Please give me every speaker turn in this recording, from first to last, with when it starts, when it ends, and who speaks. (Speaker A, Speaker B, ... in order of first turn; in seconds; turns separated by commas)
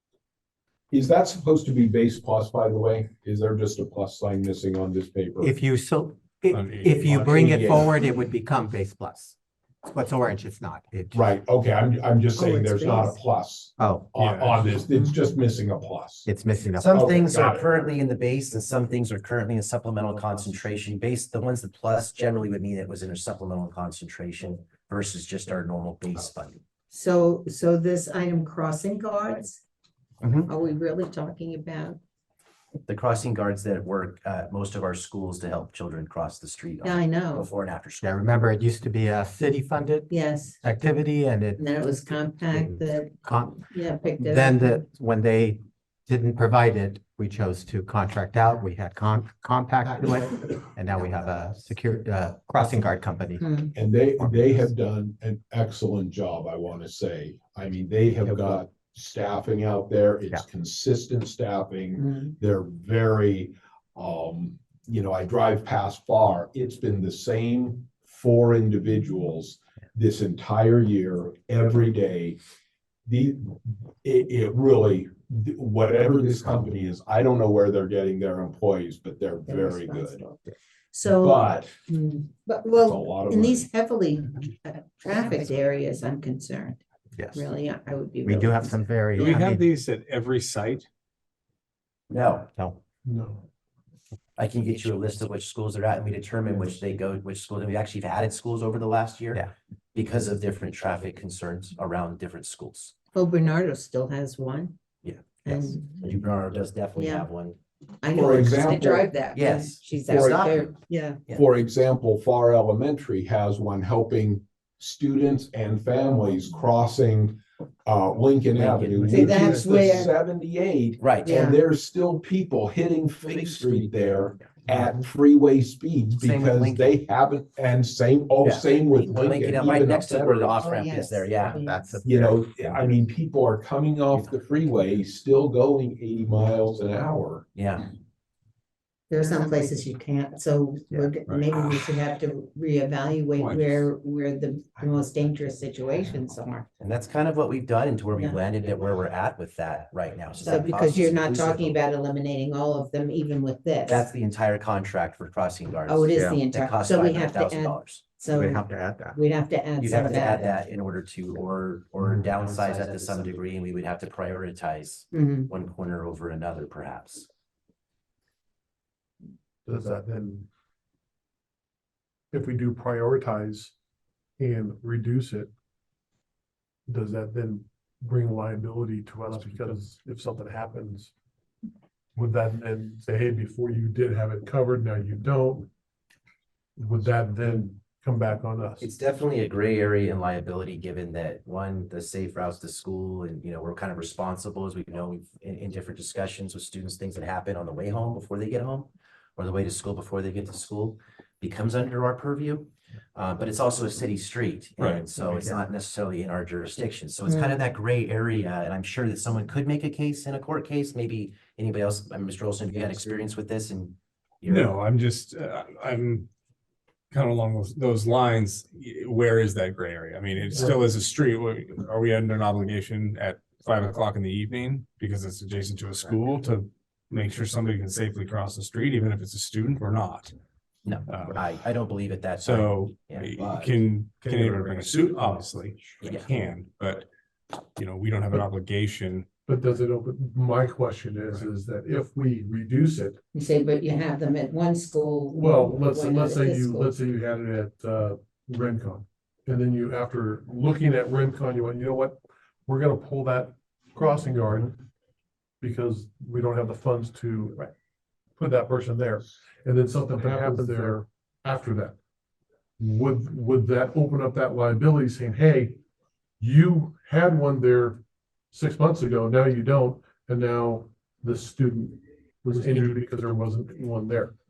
Speaker A: 0.9-5.5, Speaker B: 5.4-11.3, Speaker C: 6.5-7.9, Speaker A: 7.1-7.9, Speaker A: 11.1-16.3, Speaker D: 12.4-13.2, Speaker B: 13.8-14.1, Speaker C: 14.2-14.7, Speaker D: 14.9-15.3, Speaker B: 16.3-17.3, Speaker E: 16.8-26.6, Speaker A: 16.9-17.7, Speaker D: 26.9-29.6, Speaker E: 30.2-30.5, Speaker D: 30.4-32.0, Speaker E: 32.9-38.1, Speaker D: 36.8-37.5, Speaker B: 38.0-41.6, Speaker D: 40.1-40.6, Speaker D: 41.6-44.8, Speaker B: 42.5-43.7, Speaker B: 44.2-53.5, Speaker E: 50.9-51.6, Speaker D: 53.4-53.7, Speaker A: 53.7-72.4, Speaker B: 54.1-54.7, Speaker B: 58.3-58.6, Speaker D: 62.0-62.3, Speaker A: 73.0-80.2, Speaker D: 79.5-86.8, Speaker A: 81.0-81.8, Speaker A: 82.8-83.7, Speaker B: 87.2-87.4, Speaker D: 87.3-88.9, Speaker B: 88.2-89.7, Speaker C: 89.2-90.9, Speaker E: 92.1-92.5, Speaker F: 93.0-93.4, Speaker E: 94.4-102.9, Speaker D: 103.1-104.8, Speaker E: 105.0-107.6, Speaker D: 105.4-105.8, Speaker D: 106.9-107.3, Speaker D: 108.0-111.2, Speaker A: 108.1-109.1, Speaker E: 109.3-110.7, Speaker A: 110.1-110.4, Speaker A: 111.3-130.6, Speaker E: 118.5-119.6, Speaker D: 119.1-120.1, Speaker C: 119.1-120.1, Speaker E: 121.0-121.5, Speaker D: 121.2-121.6, Speaker E: 123.2-124.9, Speaker E: 126.1-126.9, Speaker E: 128.4-131.6, Speaker D: 130.6-132.0, Speaker B: 131.5-132.9, Speaker A: 132.0-137.4, Speaker E: 137.5-137.8, Speaker D: 139.1-146.7, Speaker C: 141.3-141.8, Speaker C: 143.3-143.9, Speaker E: 146.8-151.8, Speaker D: 150.4-154.1, Speaker E: 153.8-158.0, Speaker D: 155.8-160.5, Speaker B: 158.3-159.2, Speaker E: 159.8-167.3, Speaker D: 165.1-165.5, Speaker F: 169.7-170.5, Speaker F: 172.3-173.7, Speaker F: 174.4-175.5, Speaker F: 176.9-181.1, Speaker F: 182.2-185.7, Speaker F: 186.8-188.9, Speaker E: 188.8-214.7, Speaker C: 204.8-205.0, Speaker C: 214.4-216.3, Speaker C: 217.1-230.3, Speaker E: 230.8-233.7, Speaker C: 231.1-231.6, Speaker C: 232.4-237.1, Speaker E: 236.0-236.3, Speaker C: 237.8-239.3, Speaker F: 239.5-243.2, Speaker D: 243.3-246.9, Speaker F: 245.3-254.8, Speaker F: 255.6-257.7, Speaker F: 258.4-261.9, Speaker F: 262.8-265.8, Speaker F: 266.4-268.0, Speaker F: 268.5-274.3, Speaker C: 272.5-272.9